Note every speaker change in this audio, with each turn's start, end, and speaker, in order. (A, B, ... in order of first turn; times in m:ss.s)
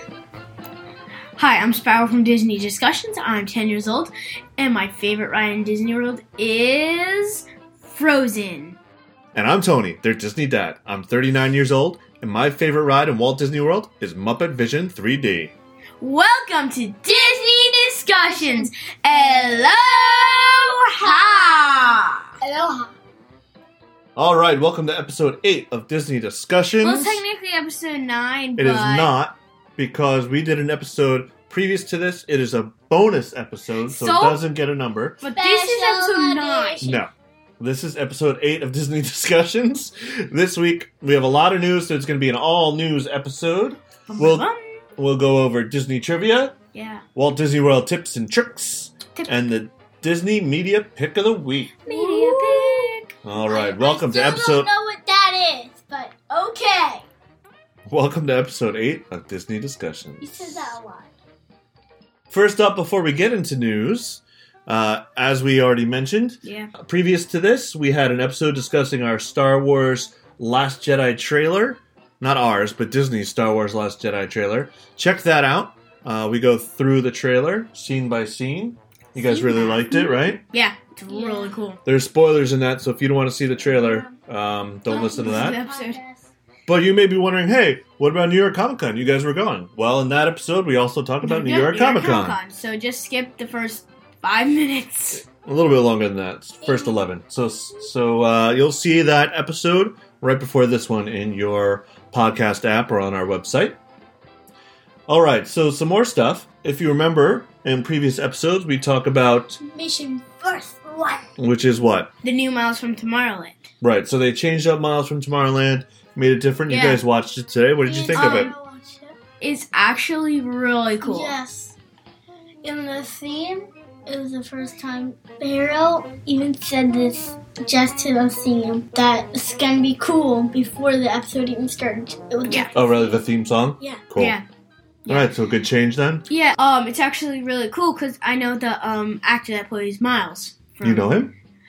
0:01.4-0:08.8 A
0:09.3-0:15.5 B
0:16.0-0:22.4 A
0:17.1-0:22.9 C
0:24.2-0:27.2 B
0:26.8-0:29.1 A
0:28.6-0:35.2 B
0:33.9-0:34.4 A
0:35.2-0:36.8 A
0:35.3-0:37.0 C
0:36.8-0:46.6 B
0:44.1-0:44.8 A
0:46.7-0:47.0 A
0:47.2-0:51.7 B
0:51.8-0:57.0 C
0:51.9-0:53.1 A
0:53.2-0:54.7 B
0:56.3-0:56.6 A
0:57.9-1:00.8 B
1:00.2-1:01.1 C
1:02.3-1:20.4 B
1:06.4-1:06.7 A
1:19.2-1:21.8 A
1:21.1-1:21.6 C
1:21.9-1:25.6 B
1:23.6-1:24.1 C
1:24.9-1:26.0 A
1:24.9-1:26.3 C
1:26.7-1:32.4 B
1:31.2-1:35.2 A
1:35.2-1:43.8 B
1:36.6-1:36.9 C
1:45.1-1:49.6 B
1:49.6-1:51.3 C
1:51.4-1:52.1 B
1:52.2-1:53.7 A
1:53.8-1:58.5 B
1:56.7-1:57.0 A
1:57.8-1:59.2 C
1:58.1-1:58.5 A
1:59.4-2:01.4 A
2:01.0-2:01.8 C
2:02.6-2:13.1 C
2:12.4-2:12.7 A
2:12.7-2:14.4 B
2:14.2-2:14.4 A
2:15.1-2:16.2 B
2:16.3-2:21.1 A
2:20.8-2:21.3 B